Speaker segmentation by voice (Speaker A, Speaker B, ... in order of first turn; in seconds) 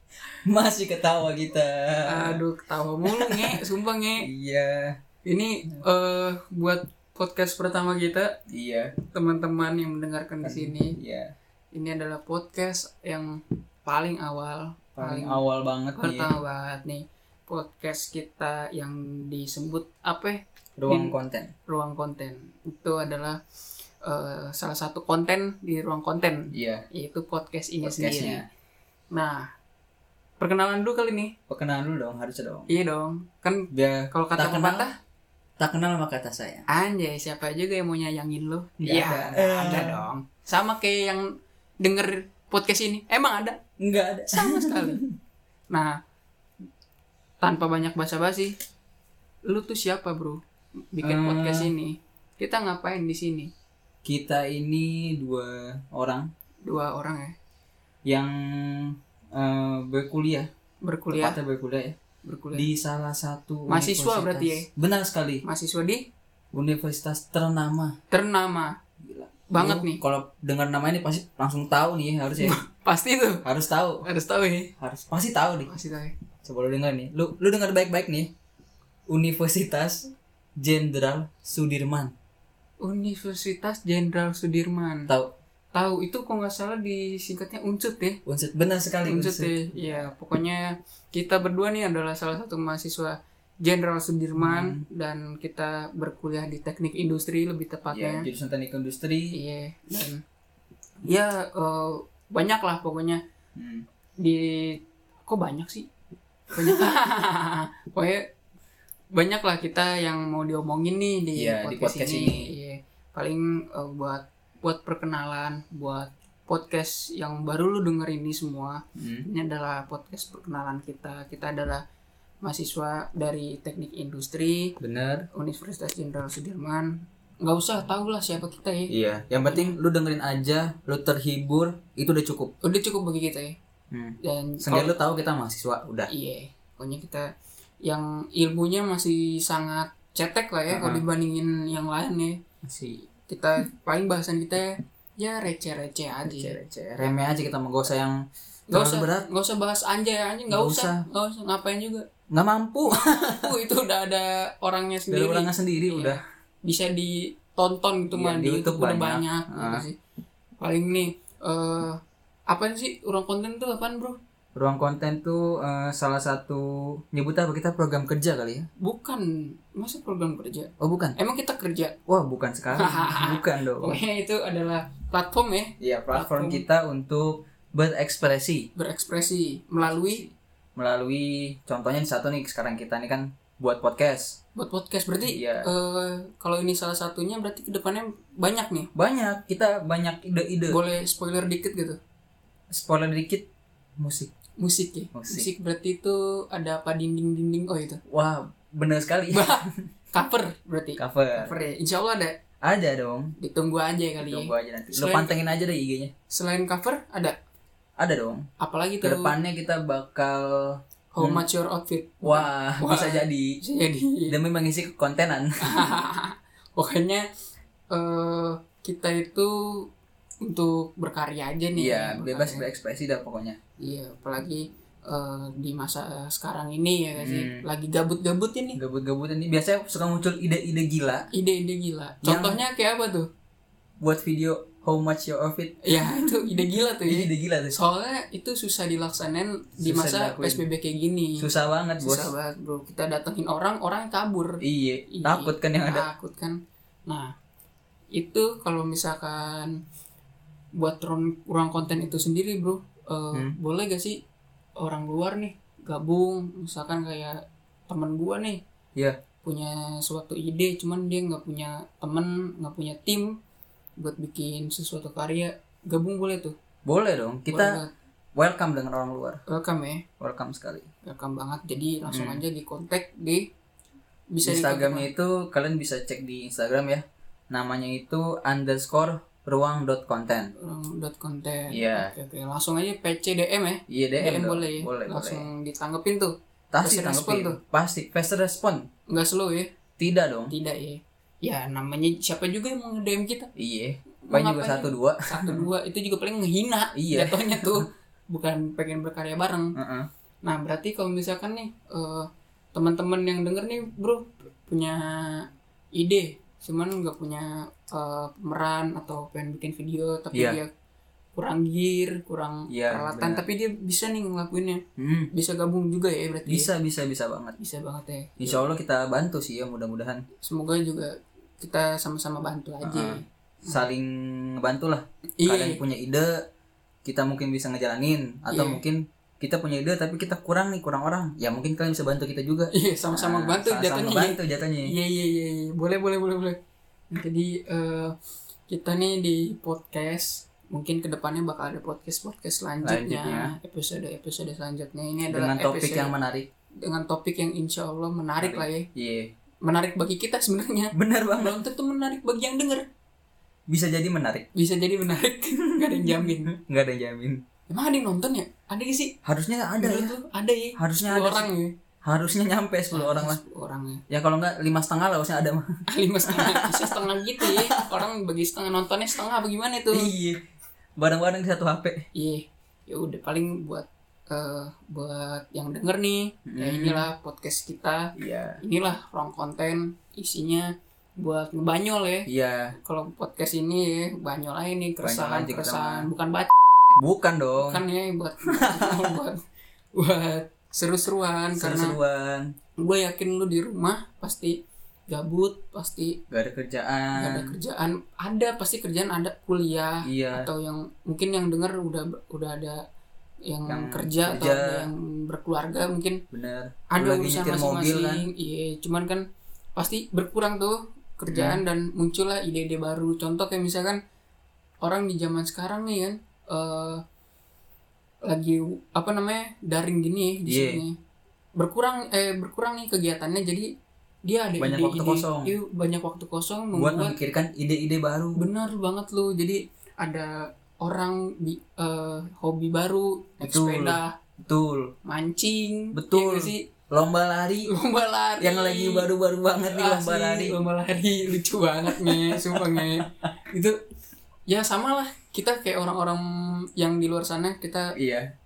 Speaker A: 0.3-2.4, 3.0-3.6, 4.2-5.0, 8.5-8.9, 10.4-11.3, 15.0-16.4, 20.8-21.5, 26.5-26.9, 27.8-28.4, 31.5-32.7, 33.7-34.9, 35.6-36.6, 38.8-40.1, 43.8-45.1, 51.0-51.7, 54.0-56.3, 58.0-60.5, 61.1-62.0, 62.5-65.4, 66.5-68.0, 69.0-72.6, 73.4-74.0, 74.8-75.7, 76.4-78.3, 79.1-82.1, 85.1-85.3, 88.2-90.1, 94.4-94.8, 97.9-99.4, 103.5-103.8, 111.3-112.5, 119.0-119.3, 124.8-125.3, 128.9-132.5, 133.9-136.1, 140.7-141.0, 142.6-143.0, 146.2-148.2, 148.7-149.3, 150.5-151.0, 152.3-153.5, 155.1-156.2, 158.1-159.8, 164.5-168.7, 170.8-171.2, 172.1-174.0, 175.8-178.7, 179.8-184.4, 185.2-185.7, 188.9-190.8, 192.7-193.4, 194.0-194.3, 195.1-195.5, 198.1-199.7, 201.0-201.5, 202.6-203.3, 204.2-206.1, 208.0-208.4, 209.0-211.4, 212.2-213.6, 214.3-215.9, 221.8-223.6, 227.2-227.6, 228.8-231.3, 232.2-232.6, 234.0-237.8, 239.8-240.6, 241.4-242.3, 244.6-246.1, 266.9-267.8, 268.4-269.4, 270.2-270.9, 272.1-272.4, 274.4-280.5, 281.7-282.1, 283.9-285.4, 286.7-288.9, 290.0-290.5, 293.6-295.7, 296.9-297.8, 299.8-300.1, 310.3-310.6, 312.7-313.4, 315.0-315.3, 316.4-317.6, 318.4-320.2, 322.8-326.4, 327.0-334.9, 342.8-343.5, 345.3-346.5, 348.4-349.3, 350.9-351.6, 353.7-354.4, 355.8-357.4, 359.2-360.1, 360.8-361.5, 362.0-363.4, 364.1-365.7, 366.2-368.0, 369.9-370.4, 371.0-372.1, 376.5-377.1, 378.2-378.6, 382.3-382.8, 385.0-386.1, 387.0-387.8, 388.5-389.2, 391.5-392.5, 396.3-397.5, 400.1-400.5, 403.7-404.9, 406.3-408.3, 411.3-411.6, 420.4-420.8, 424.6-425.5, 426.7-428.4, 433.4-434.9, 435.9-437.7, 438.4-440.6, 441.9-443.3, 448.0-448.3
Speaker B: 2.0-4.3, 5.2-8.3, 9.0-10.9, 11.7-15.4, 15.9-21.1, 21.7-23.4, 24.0-28.4, 29.1-29.5, 30.4-31.3, 32.7-34.9, 36.7-41.3, 41.8-43.6, 44.3-45.0, 45.7-46.0, 47.4-48.5, 49.5-50.4, 50.9-53.5, 56.6-57.3, 60.8-61.4, 62.2-62.7, 63.7-64.7, 65.4-66.0, 68.1-68.7, 69.5-70.0, 72.4-73.4, 74.0-74.7, 75.6-76.1, 82.8-85.1, 85.7-88.2, 89.0-98.3, 99.3-100.2, 101.0-103.2, 104.2-105.9, 106.5-108.3, 109.1-121.8, 122.4-124.8, 125.3-128.9, 129.5-129.8, 132.6-133.5, 134.2-134.9, 136.1-137.2, 137.8-142.4, 143.2-147.1, 148.7-152.0, 152.8-159.9, 160.6-162.0, 162.5-164.2, 168.8-171.9, 172.7-176.6, 178.8-180.2, 184.6-188.9, 190.7-192.0, 194.6-198.0, 199.3-202.3, 203.4-205.4, 206.3-207.3, 208.6-209.3, 211.1-214.3, 215.6-217.2, 217.9-219.5, 220.4-222.6, 223.8-228.8, 231.3-233.3, 235.8-241.5, 242.0-247.3, 248.1-249.8, 250.8-254.2, 254.8-258.6, 259.4-263.4, 264.0-266.5, 267.5-267.9, 269.5-270.0, 271.0-273.4, 274.3-275.1, 280.6-287.6, 289.1-289.7, 290.5-293.5, 294.2-299.8, 300.4-310.7, 311.4-314.8, 315.3-316.7, 317.6-318.6, 320.4-323.8, 325.4-325.8, 328.5-328.8, 332.7-336.6, 337.1-338.1, 338.7-346.1, 346.8-348.9, 349.6-352.8, 354.5-356.6, 357.7-359.1, 359.8-361.8, 362.9-364.0, 365.9-370.1, 372.1-386.6, 387.6-389.4, 389.9-392.0, 392.8-394.6, 395.1-396.2, 397.1-402.8, 403.5-406.2, 406.9-409.2, 409.8-414.0, 414.8-417.0, 418.2-420.9, 421.6-423.7, 424.2-427.1, 428.4-434.1, 435.0-436.6, 437.7-439.1, 439.6-443.8, 444.5-447.9